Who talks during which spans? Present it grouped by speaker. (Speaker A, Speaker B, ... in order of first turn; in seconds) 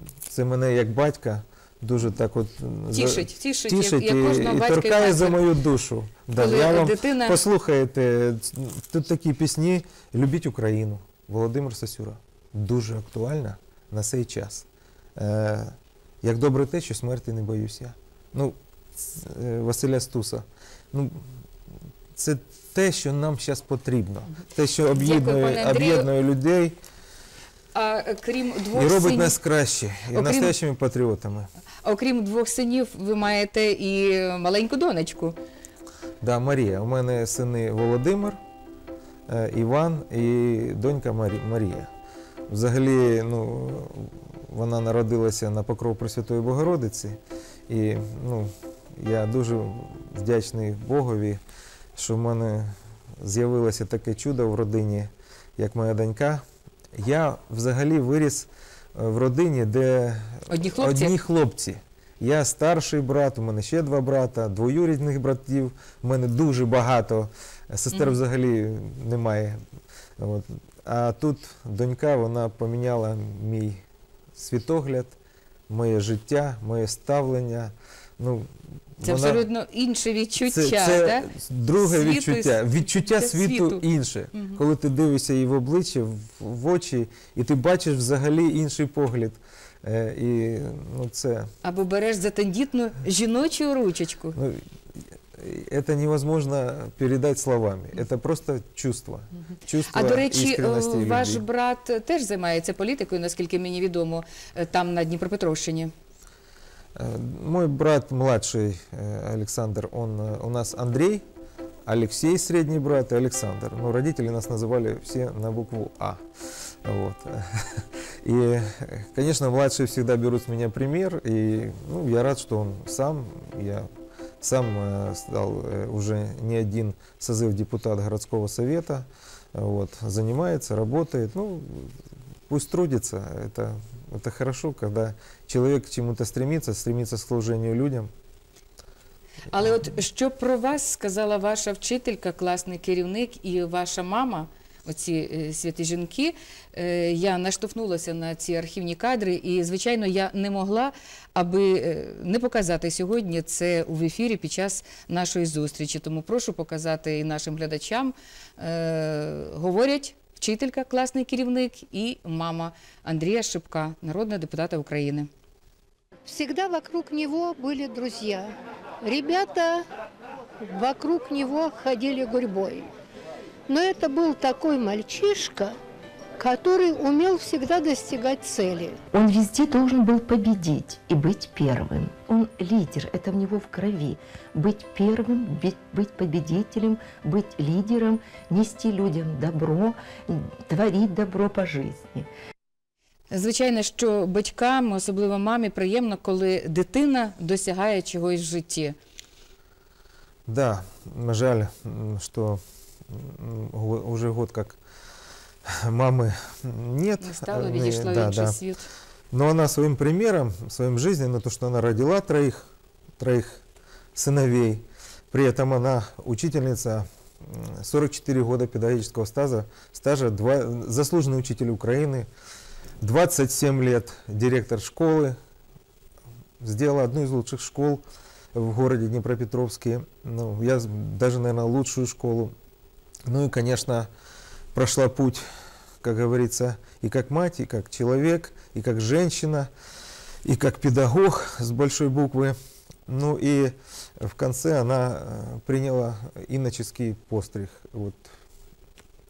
Speaker A: 0.3-21.3, 22.1-26.8, 28.7-31.5, 36.2-38.4, 39.3-41.9, 42.5-51.4, 52.0-56.4, 57.0-69.6, 70.2-73.8, 74.4-75.2, 75.7-79.5, 80.4-91.5, 94.4-94.7, 95.3-101.4, 107.0-111.2, 111.9-116.2, 116.8-123.9, 124.4-131.9, 132.5-138.1, 200.5-204.8, 205.7-208.6, 209.3-212.7, 213.2-213.6, 214.2-222.3, 223.0-225.4, 226.6-228.0, 228.5-232.5, 233.3-234.1, 234.7-235.4, 236.0-239.7, 240.4-242.6, 243.1-248.3
Speaker B: 2.9-5.4, 6.3-7.4, 24.9-26.1, 27.7-29.4, 30.1-30.5, 31.8-35.4, 60.5-61.1, 79.0-83.8, 91.6-94.4, 99.9-105.9, 139.5-165.3, 193.3-199.0, 207.2-208.9
Speaker C: 166.3-169.9, 170.6-172.9, 173.7-175.8, 176.4-179.0
Speaker D: 179.1-192.3